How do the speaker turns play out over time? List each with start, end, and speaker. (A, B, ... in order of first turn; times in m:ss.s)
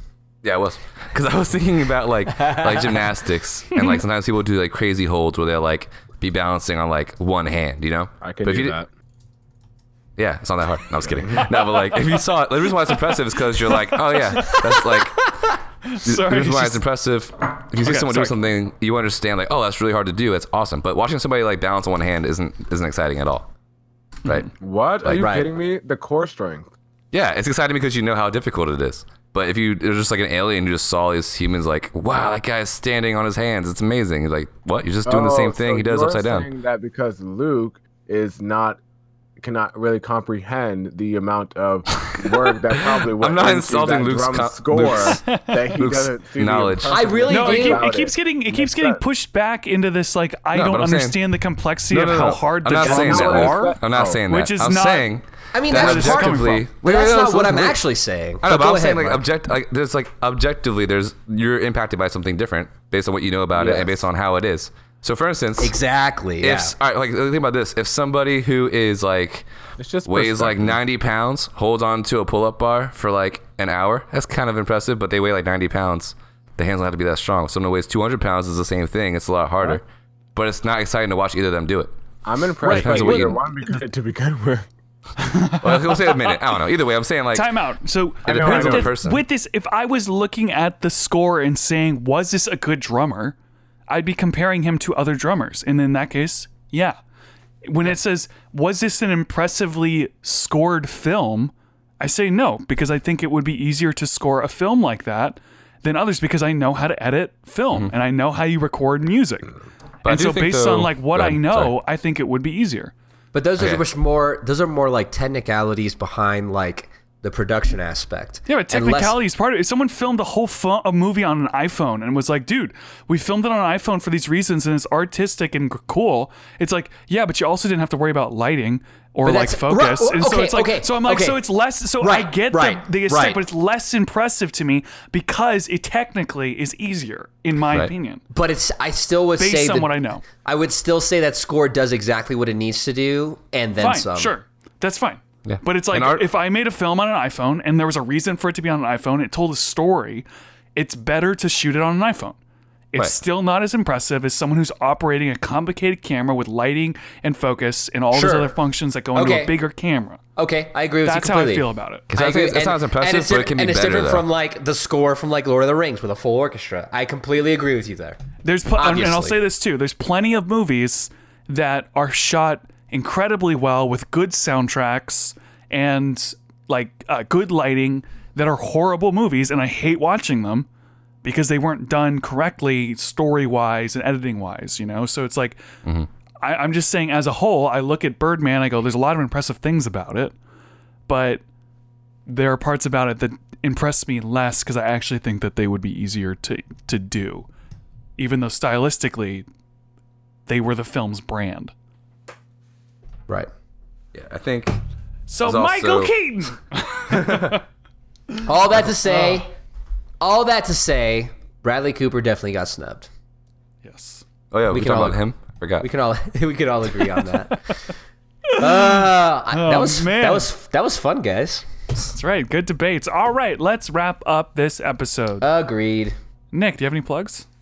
0:00.4-0:08.8 A
0:02.4-0:03.0 B
0:08.2-0:08.9 C
0:10.2-0:15.2 A
0:11.2-0:11.5 C
0:11.6-0:12.0 D
0:13.6-0:14.7 D
0:14.9-0:15.5 B
0:15.8-0:16.8 D
0:16.0-0:23.5 A
0:17.7-0:18.4 D
0:24.2-0:24.5 A
0:24.6-0:26.7 C
0:25.0-0:25.3 A
0:25.2-0:25.5 B
0:27.1-0:36.5 A
0:35.0-0:38.8 C
0:39.4-0:49.0 C
0:43.2-0:47.0 A
0:44.9-0:45.8 D
0:46.8-0:47.9 B
0:47.3-0:55.1 D
0:50.5-0:51.2 A
0:51.9-0:57.8 A
0:52.7-0:54.2 C
0:55.5-0:59.2 B
0:55.7-0:56.7 D
0:58.4-1:05.8 A
1:03.5-1:03.9 C
1:05.6-1:06.7 B
1:06.4-1:09.5 A
1:09.8-1:10.8 C
1:10.0-1:21.9 A
1:22.2-1:24.7 C
1:22.6-1:23.4 A
1:22.6-1:23.4 D
1:25.2-1:26.4 D
1:25.6-1:27.5 A
1:27.3-1:33.4 D
1:28.2-1:28.9 C
1:28.2-1:29.2 A
1:33.9-1:37.0 D
1:37.6-1:52.9 D
1:50.0-1:51.7 A
1:53.3-1:59.2 B
1:53.6-1:53.8 A
1:58.5-2:18.2 D
2:09.2-2:11.4 B
2:12.0-2:13.4 B
2:18.3-2:24.3 B
2:19.4-2:20.2 D
2:23.8-2:32.4 D
2:25.4-2:26.2 A
2:32.9-2:40.2 D
2:38.1-2:38.5 B
2:39.1-2:39.6 B
2:40.4-2:48.2 B
2:41.0-2:42.0 D
2:42.1-2:44.3 A
2:48.4-3:00.7 D
2:48.8-2:49.4 B
3:01.2-3:05.6 D
3:06.4-3:10.3 D
3:11.1-3:11.4 D
3:12.2-3:17.5 D
3:18.2-3:19.4 D
3:20.5-3:21.7 D
3:24.1-3:24.8 A
3:25.3-3:27.6 D
3:25.4-3:26.1 A
3:27.1-3:27.6 A
3:28.4-3:29.5 B
3:30.2-3:33.1 B
3:33.8-3:34.2 D
3:34.5-3:35.9 A
3:34.7-3:35.2 B
3:35.8-3:37.8 B
3:37.5-3:37.8 D
3:38.5-3:40.5 D
3:38.6-3:41.7 B
3:42.0-3:45.5 D
3:45.4-3:46.2 B
3:46.5-3:47.4 D